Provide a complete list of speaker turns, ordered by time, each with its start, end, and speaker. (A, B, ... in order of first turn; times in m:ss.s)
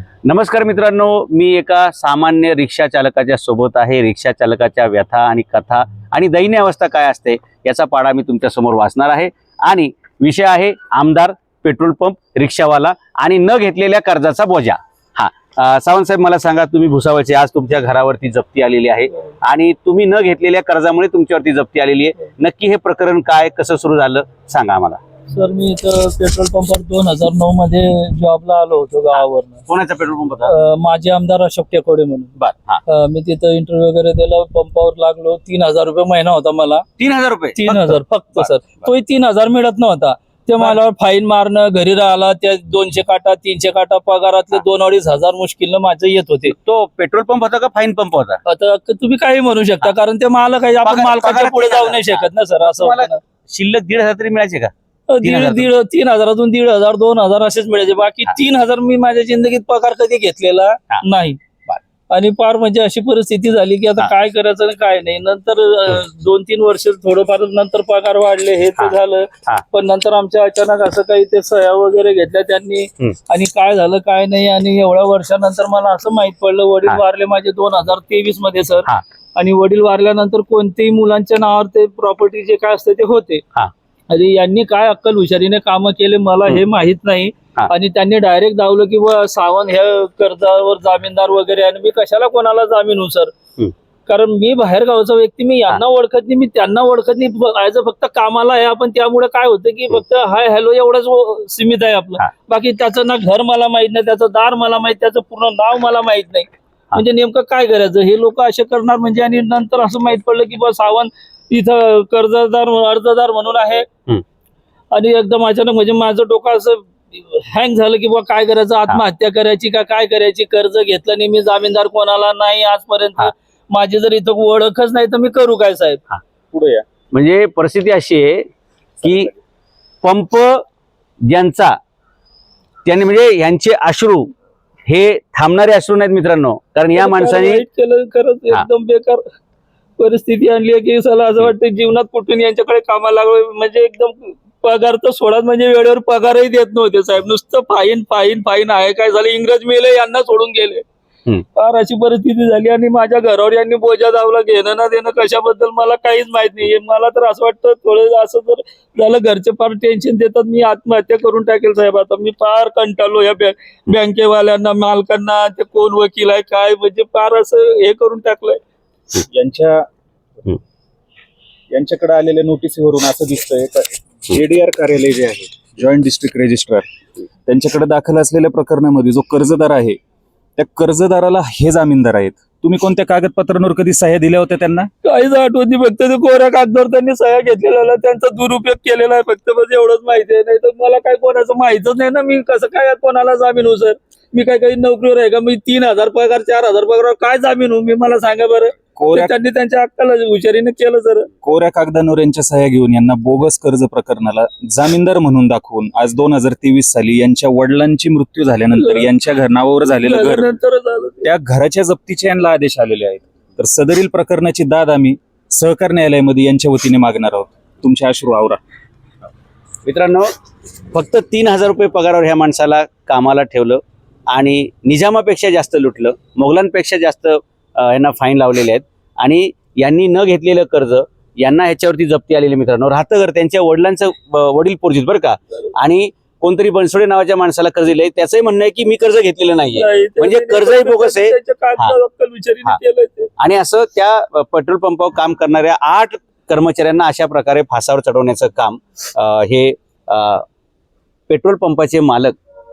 0:00.2-0:25.0 A
0:25.3-0:29.6 B
0:29.1-0:30.5 A
0:30.4-0:36.8 B
0:32.4-0:32.8 A
0:37.0-0:38.9 A
0:37.6-0:46.5 B
0:46.5-0:48.4 A
0:48.4-0:53.2 B
0:50.8-0:54.7 A
0:55.1-1:01.4 B
0:55.2-0:55.7 A
1:02.1-1:23.4 B
1:08.8-1:09.6 A
1:24.1-1:33.3 B
1:34.1-1:53.9 B
1:54.9-2:06.0 B
2:06.5-2:06.8 C
2:07.1-2:08.5 A
2:09.0-2:09.3 A
2:10.0-2:10.6 A
2:11.2-2:11.7 A
2:12.8-2:14.3 A
2:14.9-2:17.6 A
2:16.9-2:19.2 B
2:20.0-2:30.8 B
2:31.5-2:48.6 B
2:49.3-2:49.8 C
2:51.7-2:56.8 C
2:57.4-3:00.0 C
3:00.6-3:04.9 C
3:05.0-3:21.3 B
3:19.0-3:19.3 C
3:21.4-3:30.4 C
3:28.7-3:29.1 B
3:29.9-3:31.2 B
3:31.2-3:38.6 C
3:39.8-3:40.3 A
3:40.9-4:02.0 A
3:59.7-4:03.3 B
4:03.4-4:10.4 A
4:11.3-4:12.3 A